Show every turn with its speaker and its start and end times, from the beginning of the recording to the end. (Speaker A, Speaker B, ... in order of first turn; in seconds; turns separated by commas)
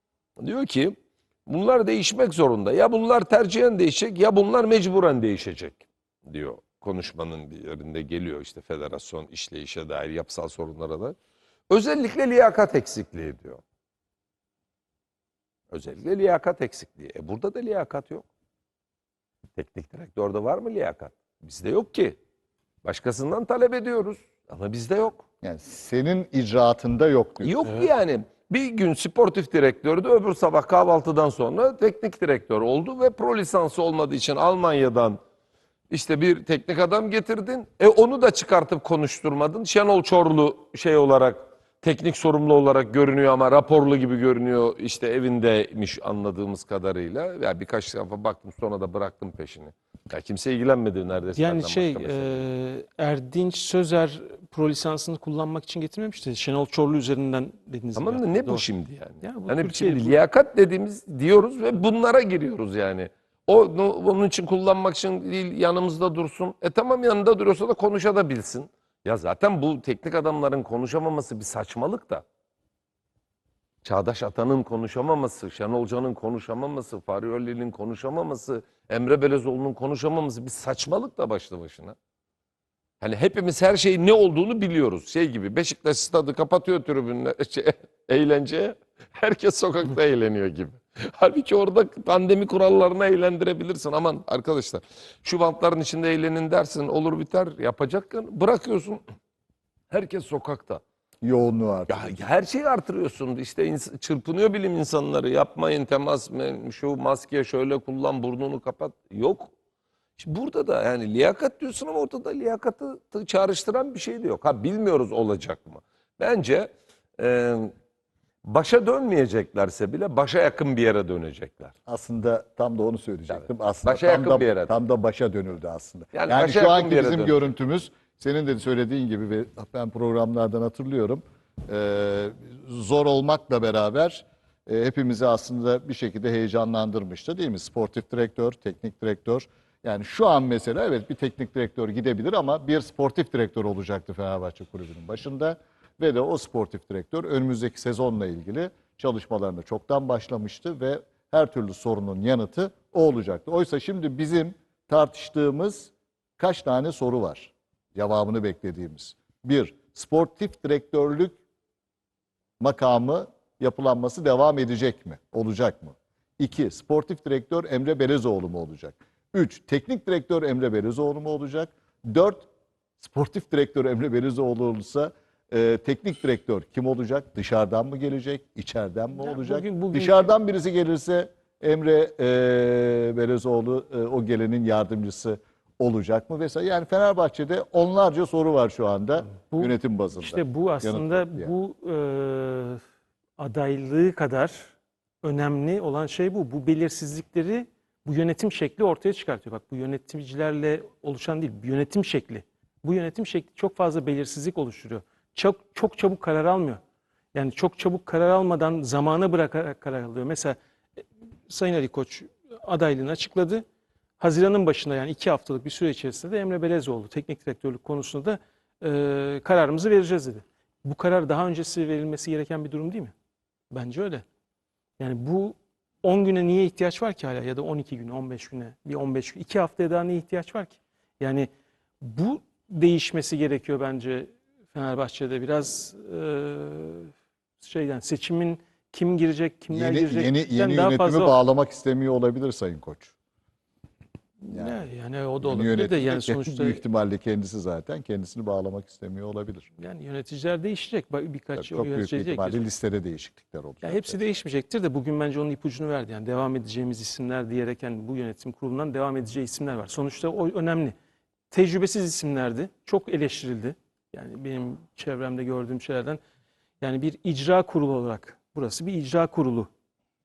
Speaker A: 0.4-11.1, Speaker A: 11.7-13.6, Speaker A: 15.7-18.3, Speaker A: 19.6-22.2, Speaker A: 22.8-25.2, Speaker B: 25.4-27.6, Speaker A: 27.4-35.2, Speaker A: 35.9-52.4, Speaker C: 51.3-58.6, Speaker A: 58.0-72.2, Speaker C: 59.2-60.2, Speaker A: 73.8-82.0, Speaker A: 83.0-99.0, Speaker A: 99.9-100.8, Speaker B: 101.2-102.1, Speaker A: 101.9-109.5, Speaker A: 110.2-117.7, Speaker A: 118.4-121.7, Speaker B: 121.8-161.4, Speaker A: 123.3-124.7, Speaker A: 126.1-127.5, Speaker B: 162.6-172.5, Speaker B: 173.0-191.5, Speaker C: 179.2-180.3, Speaker C: 189.3-192.8, Speaker C: 193.4-206.8, Speaker C: 207.3-210.6, Speaker C: 211.5-213.6, Speaker C: 214.2-223.1, Speaker C: 223.7-224.2, Speaker C: 225.0-231.5, Speaker C: 232.0-241.4, Speaker B: 239.7-243.1, Speaker C: 244.4-246.8, Speaker B: 244.5-244.8, Speaker B: 245.4-249.7, Speaker C: 249.8-252.6, Speaker B: 251.6-254.2, Speaker C: 253.8-260.9, Speaker C: 261.5-266.2, Speaker C: 266.8-269.7